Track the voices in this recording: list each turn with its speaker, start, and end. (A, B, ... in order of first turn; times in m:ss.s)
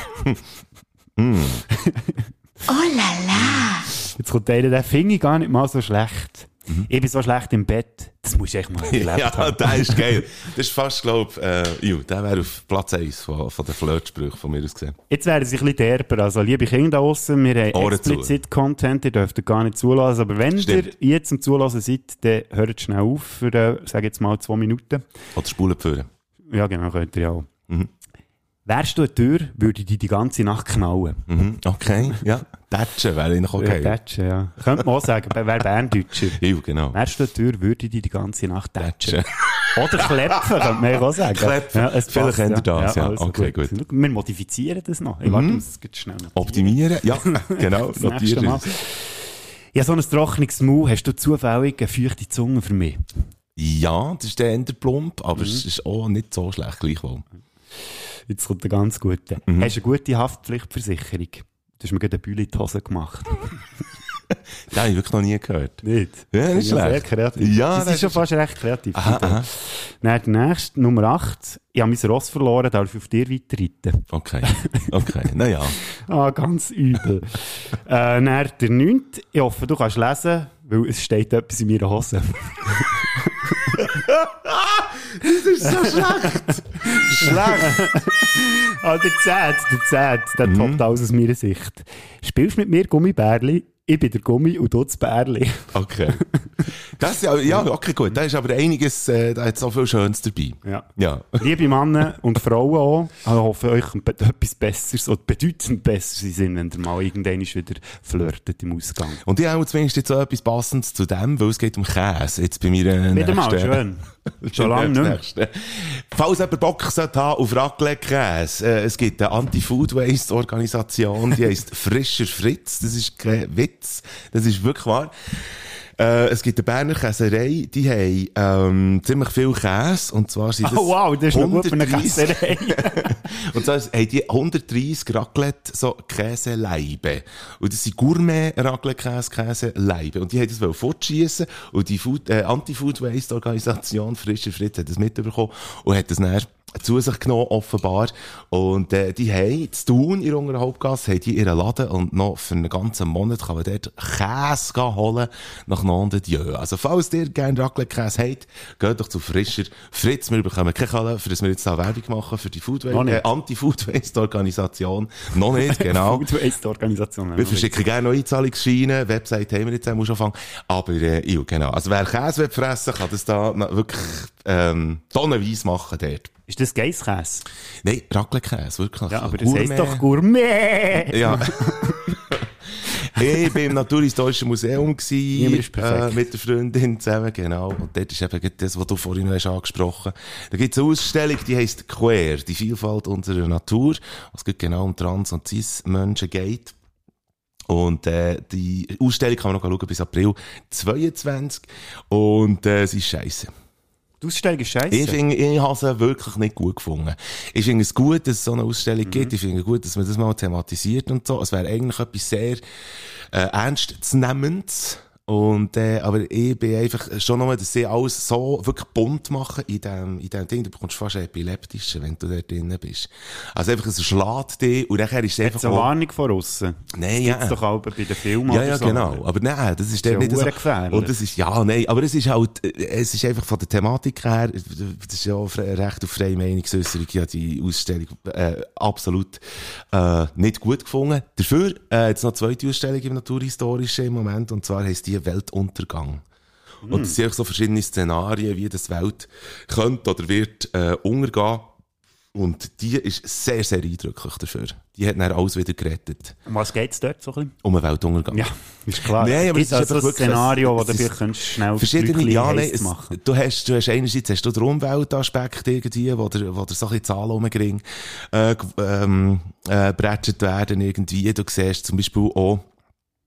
0:01.2-0:01.6 A
0:01.7-0:02.2 B
0:03.4-0:03.6 A
0:03.6-0:10.2 B
0:08.8-0:15.0 A
0:15.1-0:25.0 B
0:17.7-0:18.4 A
0:20.6-0:20.9 A
0:25.3-0:26.1 A
0:26.5-0:27.5 B
0:28.6-0:31.3 B
0:31.3-0:34.0 A
0:33.6-0:36.4 B
0:36.4-0:37.0 A
0:36.9-0:49.2 B
0:38.8-0:39.5 A
0:40.5-0:43.7 A
0:45.2-0:45.6 A
0:46.3-0:48.7 A
0:49.7-0:53.0 B
0:53.6-0:57.2 A
0:55.4-0:55.6 B
0:58.3-1:03.6 B
0:59.5-0:59.7 A
1:04.7-1:08.3 A
1:05.8-1:14.9 B
1:08.9-1:09.5 A
1:14.1-1:15.8 A
1:15.9-1:23.9 B
1:24.1-1:28.0 A
1:25.6-1:36.2 B
1:30.4-1:30.8 A
1:35.7-1:36.2 A
1:36.8-1:41.6 A
1:40.6-1:49.2 B
1:49.2-2:05.1 A
1:53.1-1:55.2 B
2:06.0-2:46.3 A
2:10.6-2:13.2 B
2:42.9-2:43.2 B
2:45.5-2:47.8 B
2:47.4-2:56.3 A
2:56.5-2:57.4 B
2:57.8-3:00.0 A
2:59.1-3:02.1 B
3:01.0-3:02.4 A
3:02.9-3:16.7 A
3:05.3-3:06.3 B
3:17.7-3:23.5 A
3:24.2-3:25.2 B
3:24.9-3:32.6 A
3:29.0-3:29.3 B
3:33.3-3:45.9 A
3:45.4-3:49.2 B
3:46.9-3:47.6 A
3:48.4-4:06.2 A
3:50.0-3:51.1 B
4:06.8-4:07.2 B
4:06.9-4:11.7 A
4:12.3-4:16.3 A
4:16.4-4:17.5 B
4:17.6-4:32.6 A
4:18.3-4:23.2 B